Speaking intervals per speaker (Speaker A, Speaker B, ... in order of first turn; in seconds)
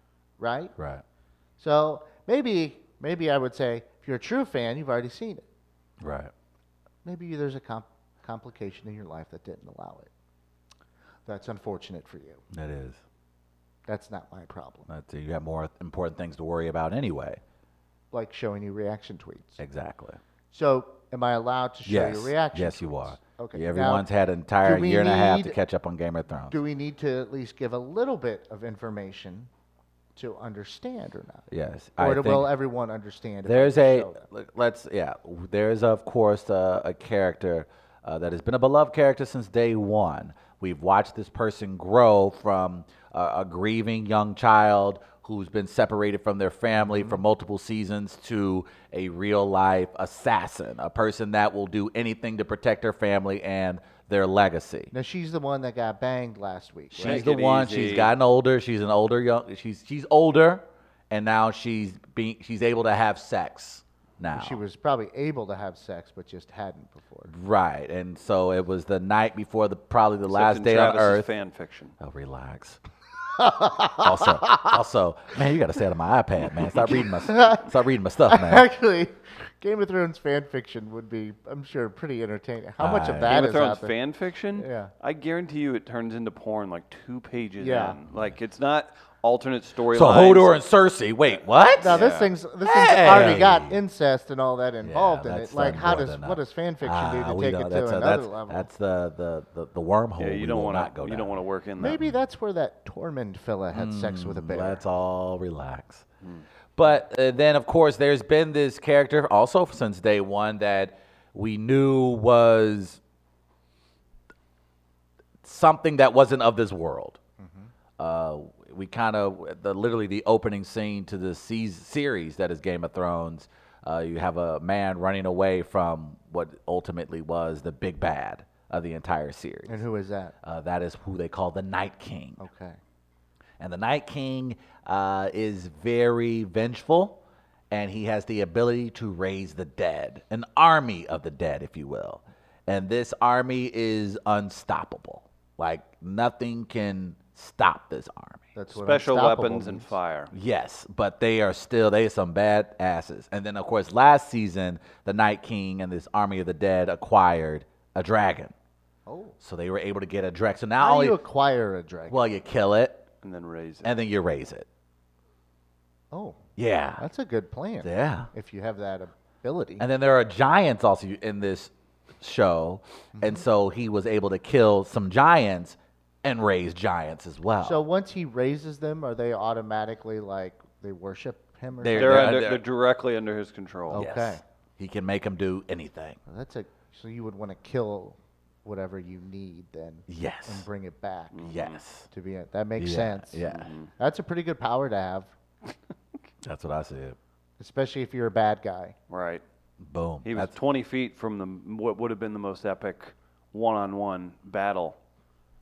Speaker A: 0.4-0.8, 1.6-5.5, 7.0-10.1, 11.3-12.4, 13.9-14.9, 18.1-19.6, 20.5-24.1, 24.6-25.6, 26.5-29.5, 30.2-31.4, 32.0-34.2, 46.9-47.2, 54.9-57.3, 64.3-67.3, 73.4-74.7, 76.9-77.7, 78.3-83.9, 84.5-84.9, 87.6-88.0, 91.8-98.7, 101.8-104.8, 117.4-117.7, 129.7-130.3, 132.4-132.8, 148.6-149.9, 159.1-159.4, 160.8-162.3, 166.1-166.4, 167.0-169.8, 173.2-173.4, 177.6-182.4, 183.9-184.4, 186.3-191.5, 192.1-193.4, 194.0-195.3, 197.6-198.9
Speaker B: 0.8-1.0, 6.0-6.3, 12.5-13.0, 14.9-17.4, 19.6-20.2, 21.9-26.6, 31.5-32.5, 33.5-54.9, 57.0-64.6, 67.3-71.3, 72.0-72.8, 74.0-78.7, 82.8-83.4, 89.9-92.0, 92.6-93.8, 94.8-101.4, 103.7-106.0, 106.8-113.0, 115.4-117.2, 118.0-129.8, 130.4-132.4, 133.6-148.4, 150.3-158.5, 159.4-161.2, 162.1-163.0, 163.8-164.7, 166.6-167.0, 167.8-168.3, 169.8-177.8, 181.8-182.6, 183.9-186.2, 190.1-190.7, 191.4-192.1, 192.8-193.7, 196.4-197.2, 199.8-200.5
Speaker C: 57.0-58.1, 70.3-71.9, 83.2-90.6, 91.3-92.3, 100.2-102.0, 148.7-150.3, 163.2-163.9, 181.9-184.0, 191.3-191.8, 193.4-193.9, 199.1-199.4, 200.2-205.0